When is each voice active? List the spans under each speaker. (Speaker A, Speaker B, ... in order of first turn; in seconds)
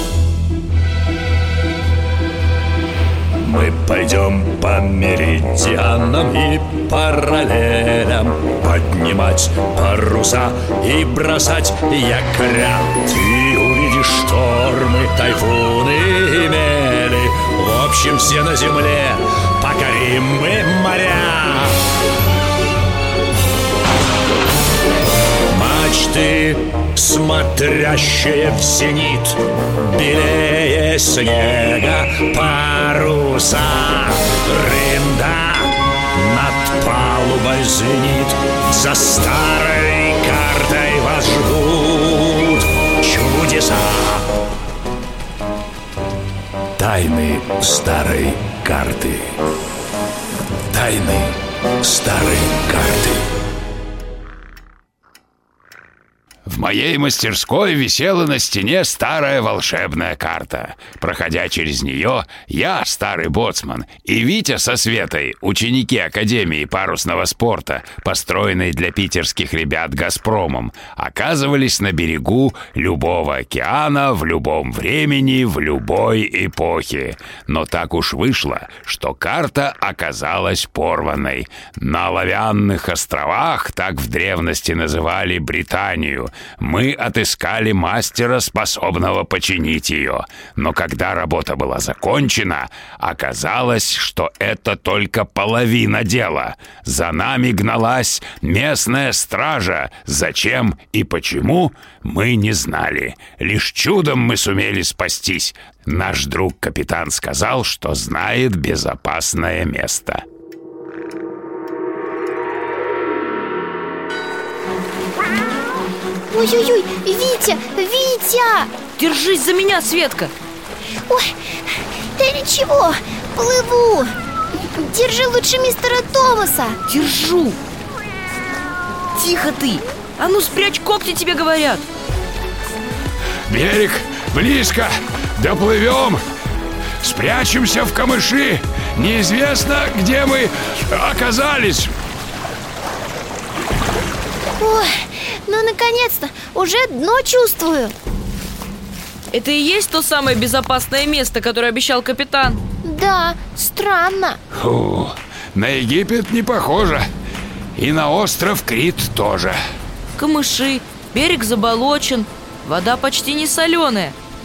Speaker A: 3.4-21.8, 25.5-44.3, 46.8-49.3, 50.7-53.2
Speaker B: 56.5-110.2, 133.5-136.2, 137.0-141.9, 154.5-157.1, 157.7-159.6
Speaker C: 116.3-118.7, 121.1-124.1, 124.8-126.8, 144.6-147.9, 152.8-154.4
Speaker D: 119.0-120.3, 126.8-127.6, 129.1-131.8, 149.3-152.6, 160.2-164.2